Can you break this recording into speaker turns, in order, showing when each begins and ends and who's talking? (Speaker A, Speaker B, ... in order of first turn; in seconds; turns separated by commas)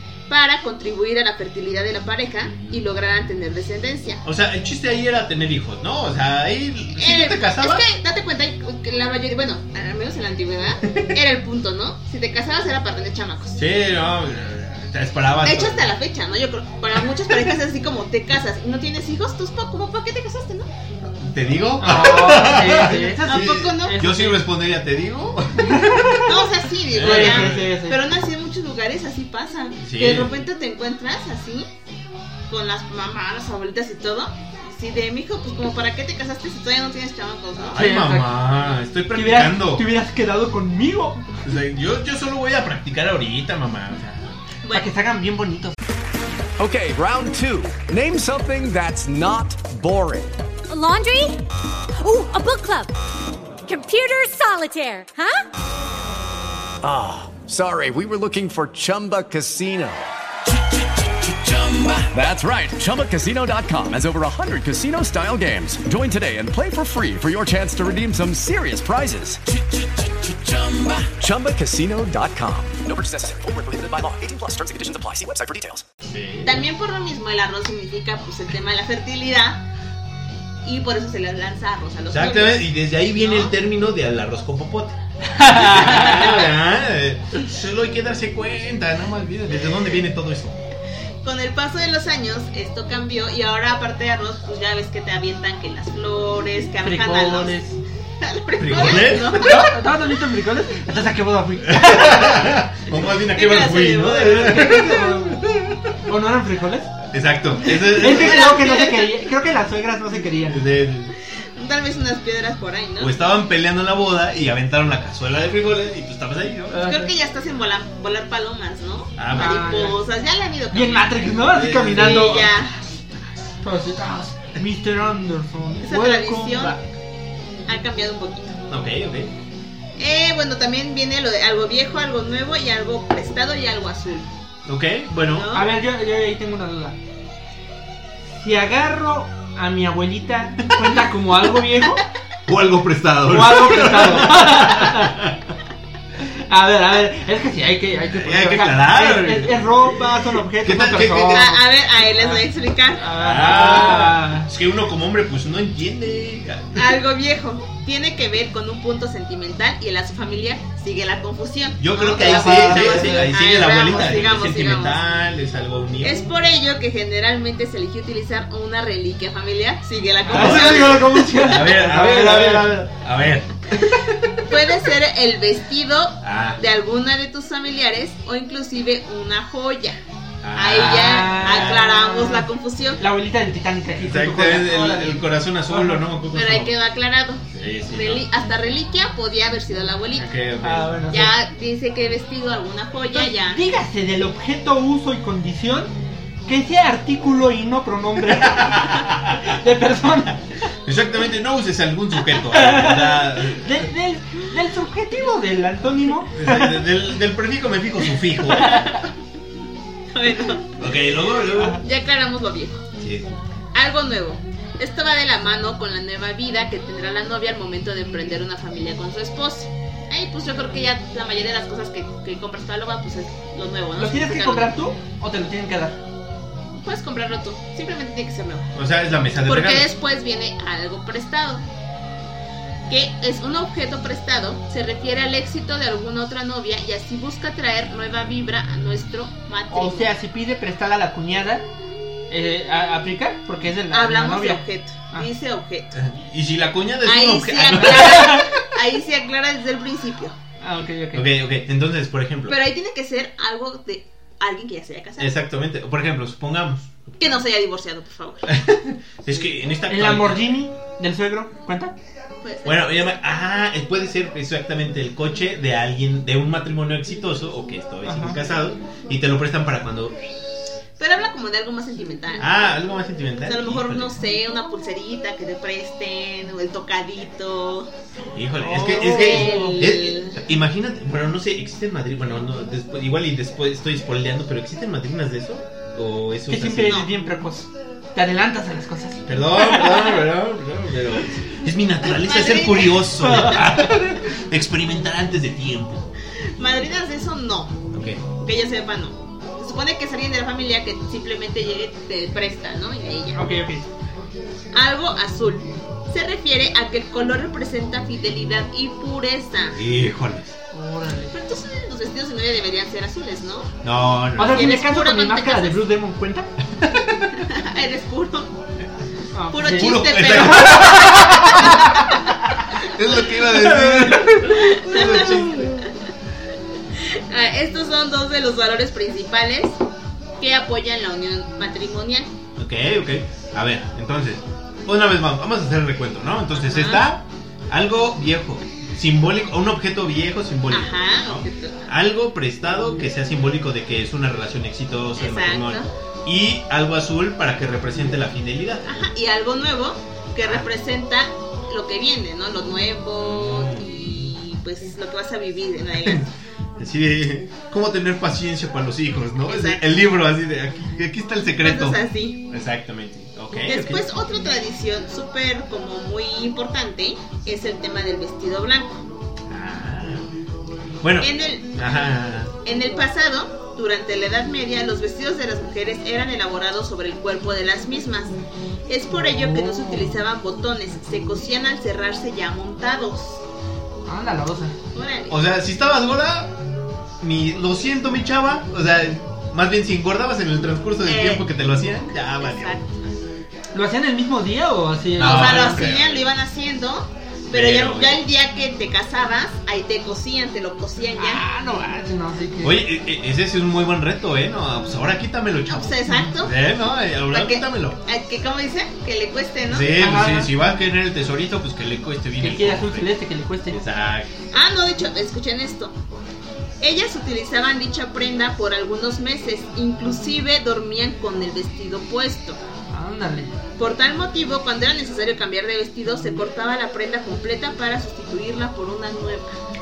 Speaker A: 0.3-4.2, Speaker B: 4.2-7.8, Speaker A: 7.0-13.6, Speaker B: 13.6-15.9, Speaker A: 15.4-20.7, Speaker B: 21.1-26.2, Speaker C: 21.8-24.4, Speaker A: 23.2-24.1, Speaker C: 25.6-26.3, Speaker A: 26.2-31.7, Speaker B: 26.9-27.8, Speaker C: 27.0-28.0, Speaker B: 29.8-30.3, Speaker A: 32.5-37.8, Speaker B: 37.6-39.9, Speaker C: 37.8-38.5, Speaker C: 39.1-41.3, Speaker B: 41.4-44.4, Speaker A: 44.6-44.9, Speaker C: 44.7-45.8, Speaker D: 46.6-50.3, Speaker E: 50.7-52.9, Speaker E: 53.7-55.4, Speaker D: 56.9-60.0, Speaker D: 62.1-69.3, Speaker D: 71.3-72.7, Speaker B: 76.0-76.7, Speaker A: 76.4-79.6, Speaker A: 80.6-82.7, Speaker B: 82.1-90.6, Speaker C: 85.4-86.2, Speaker A: 85.8-86.4, Speaker A: 91.2-97.6, Speaker C: 96.8-97.8, Speaker A: 98.2-99.7, Speaker B: 98.6-99.7, Speaker C: 98.9-102.6, Speaker B: 101.6-105.9, Speaker A: 103.3-105.0, Speaker C: 104.2-105.4, Speaker C: 106.0-107.0, Speaker B: 107.1-108.7, Speaker C: 107.8-110.6, Speaker A: 108.0-109.1, Speaker B: 110.5-111.1, Speaker A: 111.6-113.1, Speaker B: 113.0-116.8, Speaker C: 116.7-117.1, Speaker A: 116.8-121.1, Speaker B: 119.2-119.7, Speaker C: 119.3-120.0, Speaker C: 120.7-122.5, Speaker B: 121.4-122.4, Speaker A: 122.0-122.8, Speaker C: 123.6-126.8, Speaker A: 125.8-126.8, Speaker A: 127.7-128.6, Speaker B: 128.7-129.3, Speaker A: 130.0-134.3, Speaker B: 134.7-135.5, Speaker A: 135.3-135.7, Speaker C: 135.5-137.0, Speaker C: 138.3-142.0, Speaker B: 142.5-145.5, Speaker C: 143.3-145.2, Speaker C: 146.2-154.5, Speaker B: 148.1-149.9, Speaker B: 150.6-151.6, Speaker A: 151.3-153.9, Speaker B: 153.2-156.9, Speaker A: 156.8-165.0, Speaker B: 161.8-166.3, Speaker C: 162.1-163.3, Speaker A: 166.0-171.3, Speaker B: 170.3-173.9, Speaker C: 170.3-172.9, Speaker A: 174.5-180.0, Speaker B: 176.2-176.6, Speaker B: 180.4-181.9, Speaker A: 180.6-183.0, Speaker C: 180.7-182.5, Speaker C: 183.0-186.0, Speaker B: 184.0-186.7, Speaker A: 186.3-190.3, Speaker B: 187.5-188.2, Speaker B: 190.1-191.0, Speaker C: 190.6-191.3, Speaker A: 191.1-193.6, Speaker C: 193.1-195.9, Speaker C: 196.5-200.4, Speaker B: 198.4-199.5, Speaker B: 200.9-203.9, Speaker C: 202.4-206.8, Speaker B: 206.3-208.9, Speaker C: 208.6-209.0, Speaker A: 210.1-210.7, Speaker B: 210.8-211.8, Speaker A: 211.8-212.8, Speaker B: 213.0-213.3, Speaker A: 213.7-224.7, Speaker C: 224.0-226.0, Speaker A: 226.8-228.7, Speaker B: 228.8-229.9, Speaker A: 229.4-231.7, Speaker A: 232.9-240.1, Speaker C: 239.7-241.7, Speaker C: 242.3-245.3, Speaker A: 243.9-245.9, Speaker B: 245.9-248.4, Speaker A: 247.0-250.4, Speaker C: 247.7-248.5, Speaker C: 250.6-251.3, Speaker B: 251.1-252.6, Speaker A: 252.5-255.3, Speaker B: 255.2-257.2, Speaker A: 257.2-258.5, Speaker B: 258.5-260.6, Speaker C: 259.9-261.9, Speaker A: 262.4-263.2, Speaker B: 262.6-270.2, Speaker C: 268.0-268.4, Speaker A: 271.0-272.5, Speaker B: 272.4-274.2, Speaker A: 273.5-277.9, Speaker B: 278.4-287.0, Speaker C: 278.6-279.9, Speaker A: 278.9-280.4, Speaker C: 286.5-290.2, Speaker B: 289.2-296.1, Speaker A: 292.1-293.1, Speaker C: 293.2-294.1, Speaker A: 296.6-297.8, Speaker B: 297.9-298.2, Speaker A: 298.3-303.4, Speaker C: 303.4-303.9, Speaker A: 304.7-309.8, Speaker B: 309.7-310.6, Speaker C: 310.7-311.3, Speaker A: 311.3-313.7, Speaker B: 313.8-314.8, Speaker C: 314.4-316.5, Speaker A: 314.5-315.8, Speaker A: 317.3-318.5, Speaker C: 319.3-322.0, Speaker A: 319.5-322.1, Speaker B: 319.6-321.7, Speaker B: 322.8-325.8, Speaker C: 323.5-325.4, Speaker A: 324.4-325.9, Speaker A: 327.0-329.8, Speaker A: 330.4-332.3, Speaker B: 332.6-349.0, Speaker A: 336.6-337.1, Speaker A: 340.7-341.9, Speaker A: 345.2-345.9, Speaker A: 348.9-356.3, Speaker B: 350.4-350.7, Speaker B: 353.2-354.3, Speaker B: 356.0-356.3, Speaker B: 356.8-364.1, Speaker A: 359.5-359.8, Speaker A: 361.6-362.4, Speaker A: 363.7-369.0, Speaker B: 369.5-370.3, Speaker B: 371.0-372.5, Speaker A: 371.2-371.7, Speaker A: 372.6-378.4, Speaker A: 378.9-383.4, Speaker C: 379.3-380.1, Speaker C: 384.1-384.8, Speaker A: 384.9-385.4, Speaker B: 385.3-386.6, Speaker B: 387.2-392.8, Speaker A: 391.1-391.5, Speaker A: 392.4-392.9, Speaker C: 393.7-395.9, Speaker B: 395.2-396.3, Speaker A: 395.2-401.4, Speaker B: 397.5-398.2, Speaker C: 401.2-402.8, Speaker B: 402.6-408.0, Speaker A: 405.7-406.5, Speaker C: 406.1-406.3, Speaker A: 407.3-409.9, Speaker B: 409.7-413.1, Speaker C: 410.0-410.5, Speaker C: 412.4-413.8, Speaker B: 413.7-414.3, Speaker A: 414.5-415.9, Speaker A: 416.8-422.6, Speaker C: 422.9-423.6, Speaker A: 423.8-429.6